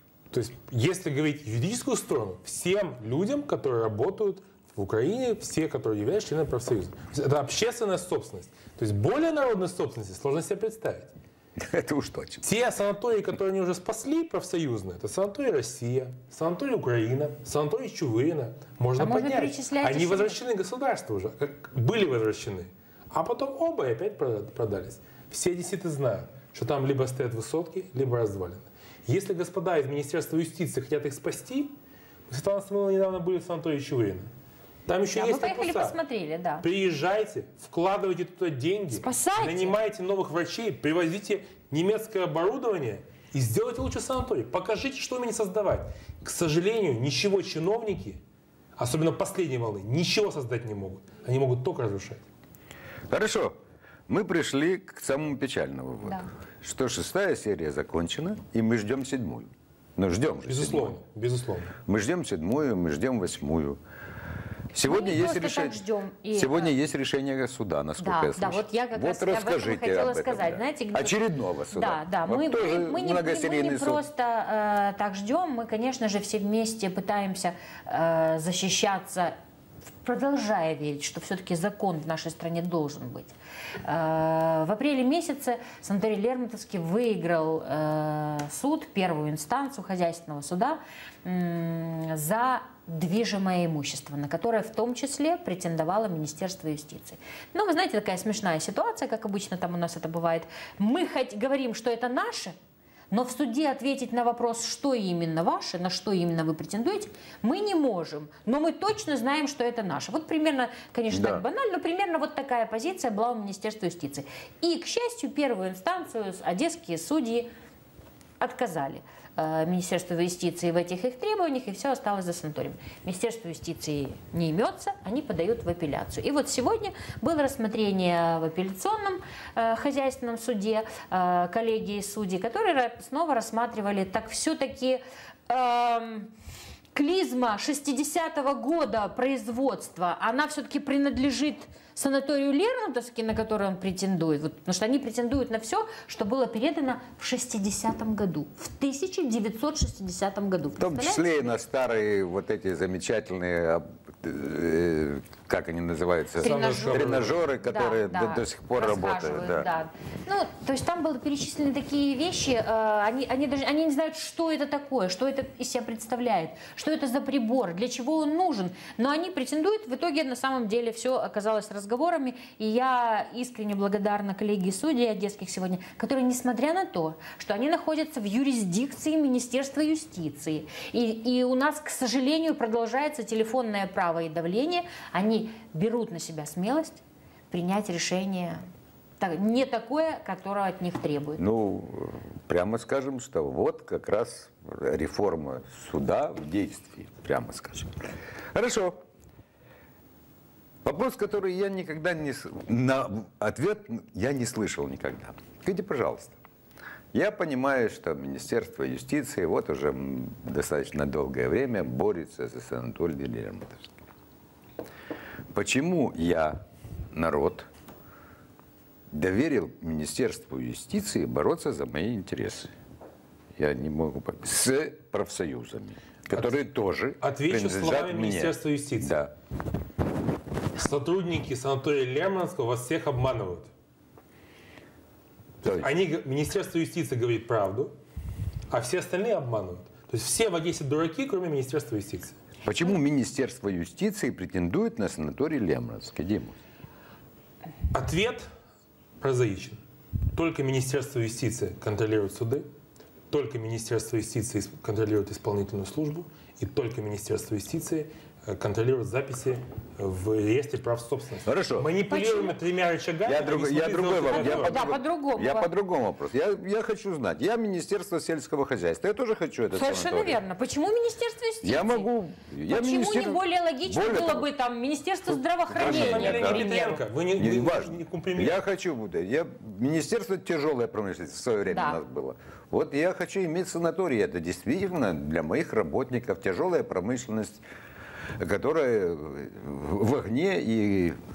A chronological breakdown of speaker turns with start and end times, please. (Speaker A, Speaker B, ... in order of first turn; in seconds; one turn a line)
Speaker A: 0.3-11.1
Speaker B: 11.6-12.5
Speaker A: 12.4-31.7
Speaker C: 19.0-20.4
Speaker A: 32.3-34.3
Speaker A: 34.9-36.0
Speaker C: 35.1-36.7
Speaker A: 36.6-48.2
Speaker C: 38.9-39.8
Speaker A: 48.8-52.2
Speaker B: 53.1-61.0
Speaker A: 60.5-61.7
Speaker B: 61.9-63.8
Speaker B: 64.7-74.0
Speaker C: 64.8-66.7
Speaker C: 68.0-71.2
Speaker C: 71.7-79.3
Speaker C: 80.0-102.5
Speaker C: 103.1-117.5
Speaker B: 111.1-111.4
Speaker C: 118.4-136.3
Speaker C: 136.9-151.5
Speaker B: 150.8-159.7
Speaker C: 156.4-188.6
Speaker A: 156.4-157.4
Speaker C: 189.2-191.4
Speaker B: 191.4-198.0
Speaker B: 198.5-199.0
Speaker B: 200.8-206.4
Speaker B: 207.1-213.9
Speaker B: 215.5-216.6
Speaker B: 217.1-217.7
Speaker B: 219.1-222.7
Speaker B: 223.6-229.3
Speaker A: 227.2-229.2
Speaker A: 230.8-233.7
Speaker B: 235.6-235.9
Speaker A: 235.7-237.9
Speaker A: 238.7-242.3
Speaker B: 242.7-246.6
Speaker A: 247.9-248.5
Speaker A: 249.2-249.8
Speaker A: 250.3-252.7
Speaker A: 253.3-264.9
Speaker B: 261.5-261.9
Speaker C: 262.1-262.6
Speaker B: 263.2-270.4
Speaker C: 264.3-265.7
Speaker C: 269.7-272.1
Speaker B: 271.6-274.5
Speaker C: 272.7-277.0
Speaker B: 275.7-276.8
Speaker A: 275.8-278.6
Speaker B: 277.4-287.6
Speaker C: 281.7-282.0
Speaker B: 288.4-291.2